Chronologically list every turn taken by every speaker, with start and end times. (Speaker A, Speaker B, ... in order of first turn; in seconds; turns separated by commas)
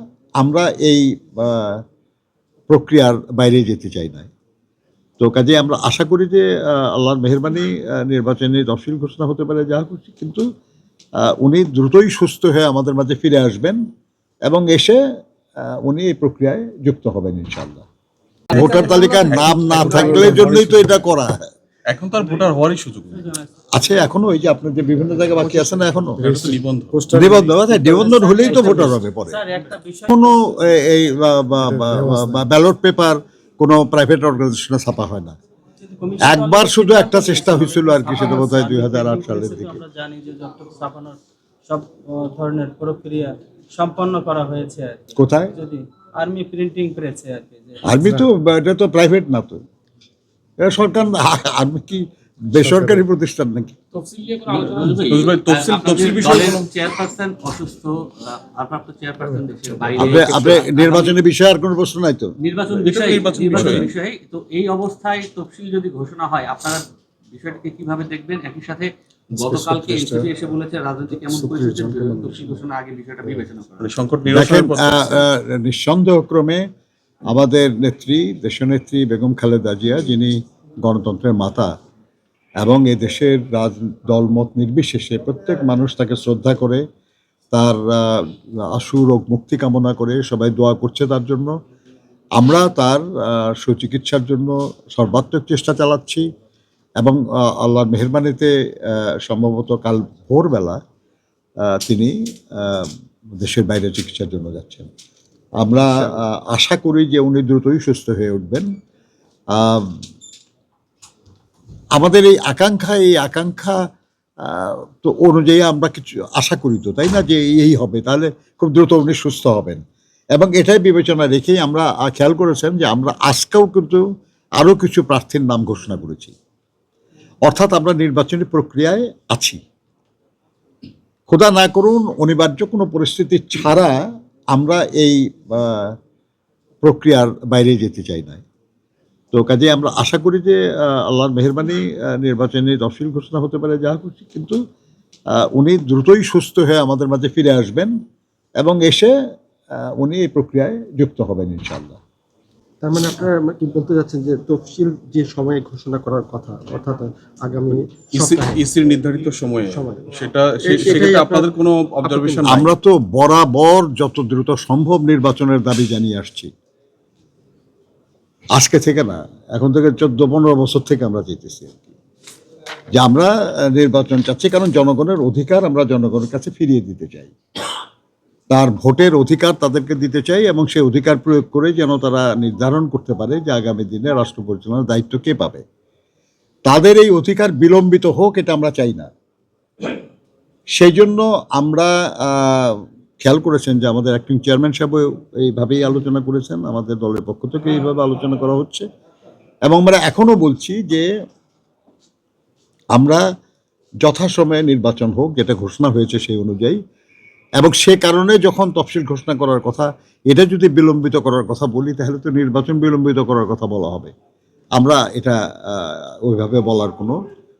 Speaker A: 0.4-1.8, Speaker A: 2.7-4.3, Speaker A: 5.2-10.4, Speaker A: 11.2-13.8, Speaker A: 14.5-15.0, Speaker A: 15.6-17.8, Speaker B: 18.5-21.1, Speaker A: 18.5-21.5, Speaker C: 18.5-20.3, Speaker D: 19.9-20.4, Speaker B: 21.9-23.2, Speaker C: 23.1-23.5, Speaker A: 23.7-26.2, Speaker D: 25.3-28.0, Speaker B: 26.2-26.9, Speaker A: 27.1-29.4, Speaker C: 27.9-31.0, Speaker A: 30.1-35.4, Speaker D: 31.7-32.4, Speaker C: 35.8-47.8, Speaker A: 36.2-39.8, Speaker A: 45.1-45.5, Speaker A: 47.8-49.6, Speaker D: 48.0-48.3, Speaker A: 50.6-53.7, Speaker D: 52.6-53.0, Speaker B: 54.1-56.6, Speaker E: 54.4-61.2, Speaker A: 60.0-62.3, Speaker E: 62.4-73.9, Speaker B: 62.8-63.9, Speaker D: 69.4-70.3, Speaker D: 71.1-72.6, Speaker B: 73.8-75.2, Speaker A: 74.3-76.7, Speaker A: 77.3-81.7, Speaker A: 82.6-86.8, Speaker A: 87.5-91.5, Speaker A: 92.4-96.2, Speaker A: 97.0-100.8, Speaker A: 101.7-104.9, Speaker A: 105.6-108.7, Speaker A: 109.5-109.9, Speaker A: 112.0-113.8, Speaker A: 114.4-119.8, Speaker A: 120.3-124.0, Speaker A: 124.6-126.3, Speaker A: 127.5-129.6, Speaker A: 131.3-135.9, Speaker A: 136.8-138.4, Speaker A: 139.3-144.6, Speaker A: 145.4-147.9, Speaker A: 148.6-149.1, Speaker A: 149.8-152.0, Speaker D: 152.8-158.6, Speaker B: 158.1-162.7, Speaker D: 159.7-162.7, Speaker A: 162.4-166.5, Speaker A: 168.5-171.9, Speaker A: 172.9-177.3, Speaker A: 178.5-185.6, Speaker A: 186.7-189.1, Speaker A: 190.8-198.8, Speaker A: 199.7-201.1, Speaker A: 202.9-203.2, Speaker A: 204.0-206.8, Speaker A: 207.6-214.1, Speaker A: 214.8-217.2